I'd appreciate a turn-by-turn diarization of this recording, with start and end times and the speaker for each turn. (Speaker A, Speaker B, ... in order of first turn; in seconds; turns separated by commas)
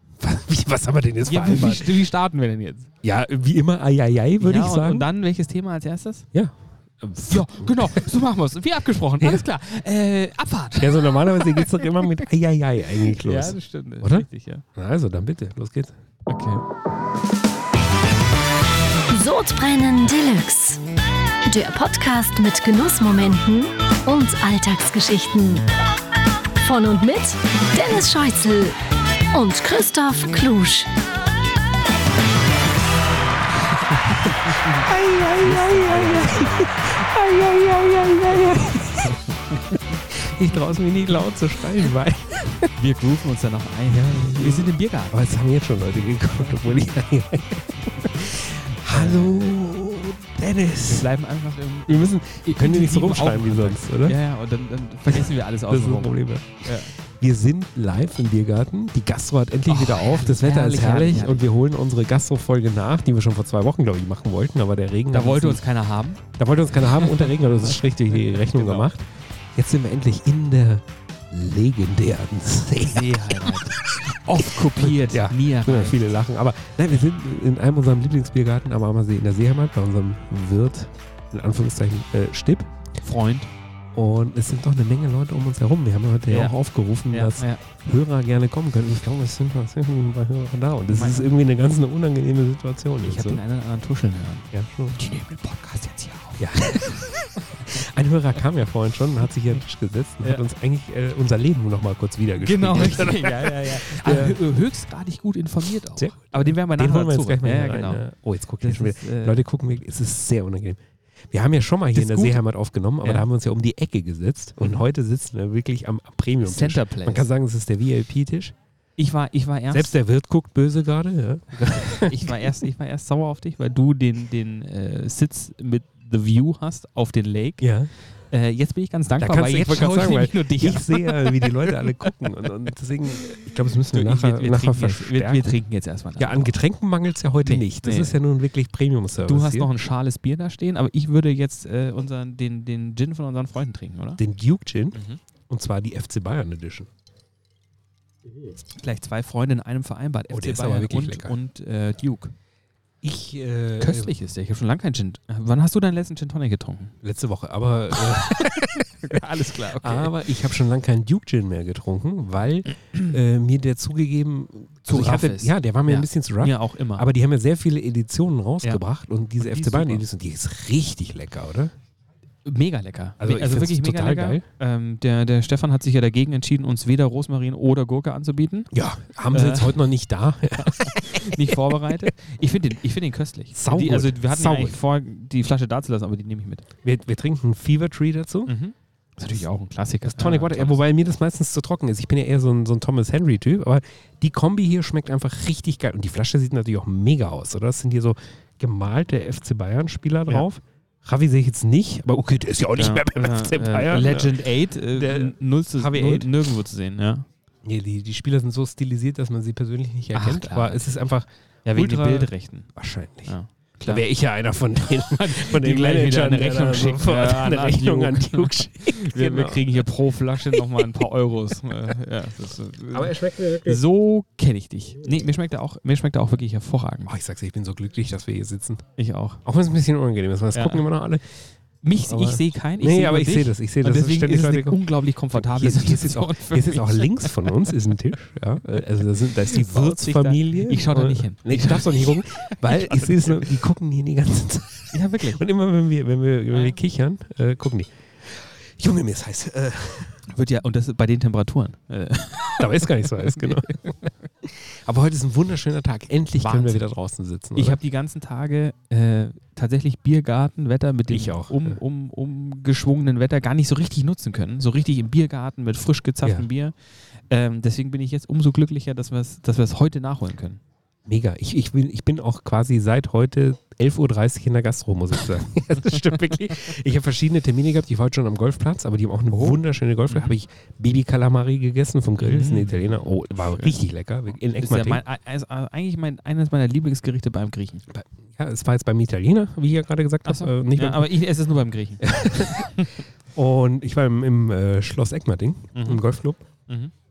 Speaker A: 0.2-2.0, Speaker B: 1.2-2.9, Speaker A: 3.0-5.1, Speaker B: 4.4-6.2, Speaker A: 6.3-8.1, Speaker B: 7.3-11.9, Speaker A: 9.2-9.4, Speaker A: 10.8-15.9, Speaker B: 13.1-14.6, Speaker B: 16.3-16.6, Speaker C: 19.1-20.8, Speaker C: 21.5-25.7, Speaker C: 26.6-28.8, Speaker C: 29.3-30.9, Speaker B: 34.1-37.0, Speaker A: 34.9-39.2, Speaker A: 39.7-42.7, Speaker B: 42.7-45.2, Speaker A: 43.9-51.1, Speaker B: 48.9-49.5, Speaker B: 50.8-56.9, Speaker A: 51.9-54.2, Speaker A: 55.1-65.6, Speaker B: 59.7-61.4, Speaker B: 65.1-66.2, Speaker A: 66.3-73.7, Speaker B: 68.2-68.9, Speaker B: 72.8-76.0, Speaker A: 74.6-82.7, Speaker B: 83.0-83.5, Speaker A: 83.9-93.4, Speaker B: 86.3-86.5, Speaker B: 87.1-87.6, Speaker B: 90.9-91.3, Speaker B: 93.0-97.1, Speaker A: 94.5-95.0, Speaker A: 96.4-104.4, Speaker B: 102.3-108.0, Speaker A: 105.9-118.5, Speaker B: 108.6-109.4, Speaker B: 111.9-112.4, Speaker B: 116.4-117.3, Speaker B: 119.0-119.9, Speaker A: 119.7-122.6, Speaker B: 121.6-127.7, Speaker A: 127.6-127.9, Speaker B: 128.3-132.1, Speaker A: 129.2-135.5, Speaker B: 133.9-136.5, Speaker A: 136.2-139.7, Speaker B: 137.4-138.2, Speaker B: 139.2-144.2, Speaker A: 144.2-146.9, Speaker B: 144.9-145.2, Speaker B: 148.8-152.3, Speaker A: 150.3-151.3, Speaker A: 153.0-154.1, Speaker B: 153.8-156.9, Speaker A: 157.0-171.7, Speaker B: 157.9-160.1, Speaker B: 164.9-167.1, Speaker B: 169.4-170.0, Speaker B: 172.4-178.7, Speaker A: 173.2-174.4, Speaker A: 178.7-181.6, Speaker B: 179.3-179.8, Speaker B: 180.6-186.6, Speaker A: 183.5-184.8, Speaker A: 186.8-188.5, Speaker B: 188.4-190.8, Speaker A: 190.0-206.5, Speaker B: 202.8-207.2, Speaker A: 207.6-213.3, Speaker B: 210.1-210.8, Speaker B: 211.6-212.7, Speaker B: 213.3-214.0, Speaker A: 213.8-219.7, Speaker B: 215.1-227.1, Speaker A: 220.5-221.0, Speaker A: 222.9-223.8, Speaker A: 227.1-228.8, Speaker B: 229.0-229.4, Speaker A: 229.4-231.2, Speaker B: 230.5-230.8, Speaker B: 231.8-237.7, Speaker A: 232.0-250.2, Speaker B: 239.2-243.4, Speaker B: 244.9-245.4, Speaker B: 250.3-253.8, Speaker A: 252.6-257.8, Speaker B: 256.4-256.9, Speaker B: 257.6-266.7, Speaker A: 261.1-261.8, Speaker B: 267.3-270.6, Speaker A: 271.1-285.0, Speaker B: 279.3-280.3, Speaker B: 282.2-282.8, Speaker B: 283.4-283.8, Speaker B: 284.6-287.8, Speaker A: 287.9-291.1, Speaker B: 290.2-293.0, Speaker A: 292.0-296.4, Speaker B: 295.7-296.0